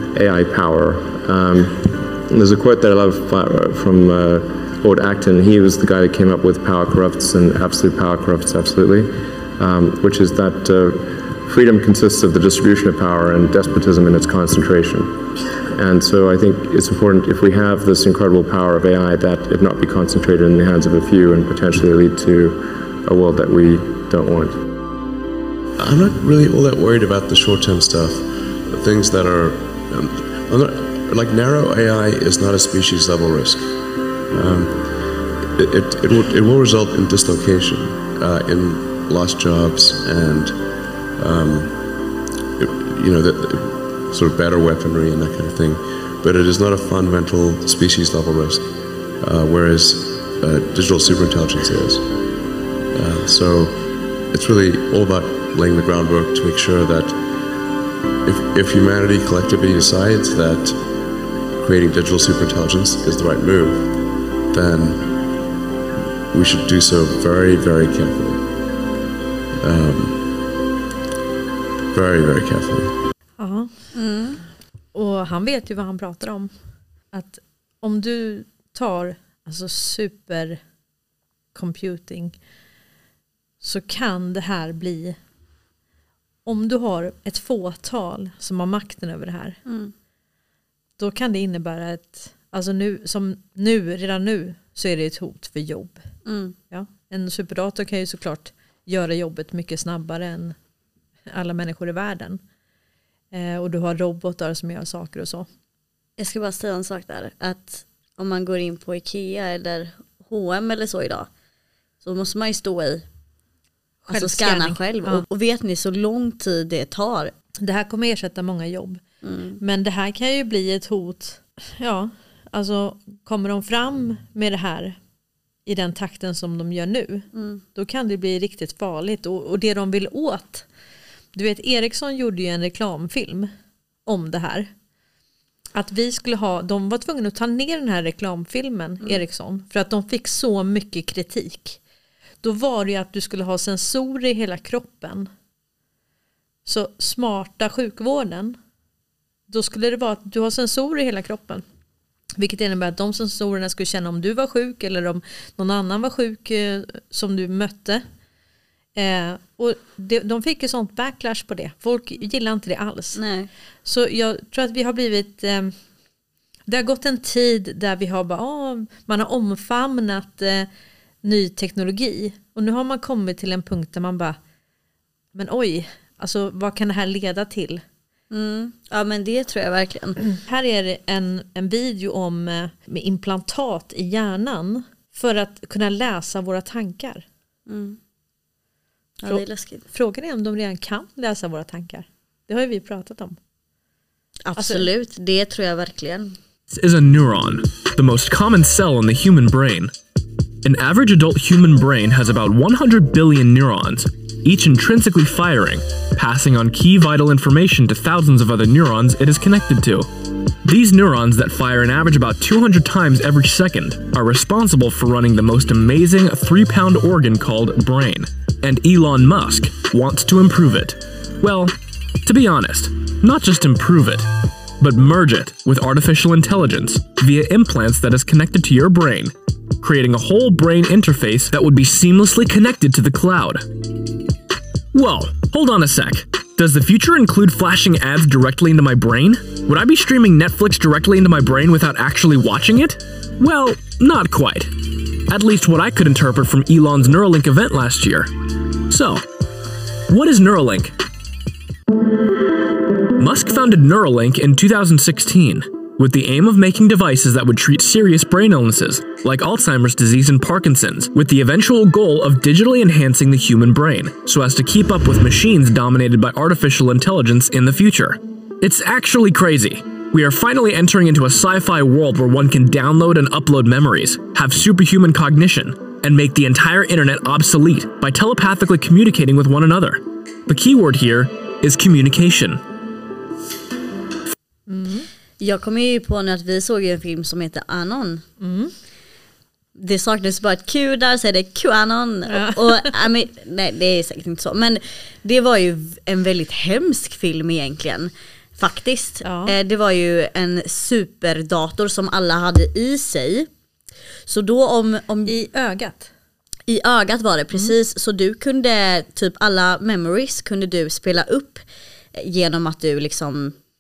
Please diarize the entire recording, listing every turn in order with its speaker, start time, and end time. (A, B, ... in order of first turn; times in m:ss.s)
0:00.1-0:24.6 A
0:25.8-0:52.2 B
0:52.9-0:57.4 B
0:58.2-1:05.4 B
1:06.3-1:08.5 B
1:09.6-1:10.4 B
1:11.9-1:13.0 B
1:13.4-1:13.7 C
1:13.9-1:14.4 D
1:14.9-1:16.5 C
1:17.1-1:20.6 C
1:21.5-1:22.4 C
1:23.6-1:25.2 C
1:26.4-1:29.6 C
1:29.6-1:29.9 D
1:31.0-1:36.0 C
1:36.2-1:36.6 D
1:36.7-1:40.5 C
1:41.3-1:42.4 C
1:43.3-1:45.5 C
1:46.2-1:51.3 D
1:52.0-1:53.0 D
1:54.0-1:55.2 C
1:54.1-1:57.3 D
1:57.6-1:59.0 C
1:59.2-1:59.6 D
1:59.6-2:05.0 C
2:05.6-2:10.6 C
2:07.3-2:07.6 D
2:11.3-2:13.5 C
2:14.0-2:14.7 C
2:15.7-2:21.8 C
2:22.4-2:25.3 C
2:26.6-2:28.6 C
2:29.5-2:31.6 C
2:32.4-2:38.0 C
2:38.9-2:43.2 C
2:43.1-2:43.5 D
2:43.8-2:45.7 C
2:46.7-2:50.7 C
2:51.2-2:54.4 C
2:55.3-2:57.8 C
2:58.3-3:00.2 D
3:00.3-3:07.2 C
3:07.7-3:08.0 D
3:09.2-3:09.8 D
3:09.3-3:13.4 C
3:14.4-3:16.4 D
3:14.6-3:14.8 C
3:16.7-3:19.9 E
3:20.6-3:41.7 E
3:42.2-3:53.7 E
3:54.9-4:08.3 E
4:08.9-4:09.2 E
4:10.1-4:11.0 E
4:13.2-4:42.6 E
4:44.7-4:45.1 C
4:45.4-4:48.2 D
4:48.4-4:48.7 C
4:49.8-5:03.5 D
4:52.3-4:52.9 C
4:59.2-4:59.5 C
5:04.3-5:05.3 D
5:05.2-5:06.1 C
5:06.7-5:11.6 D
5:12.1-5:13.6 D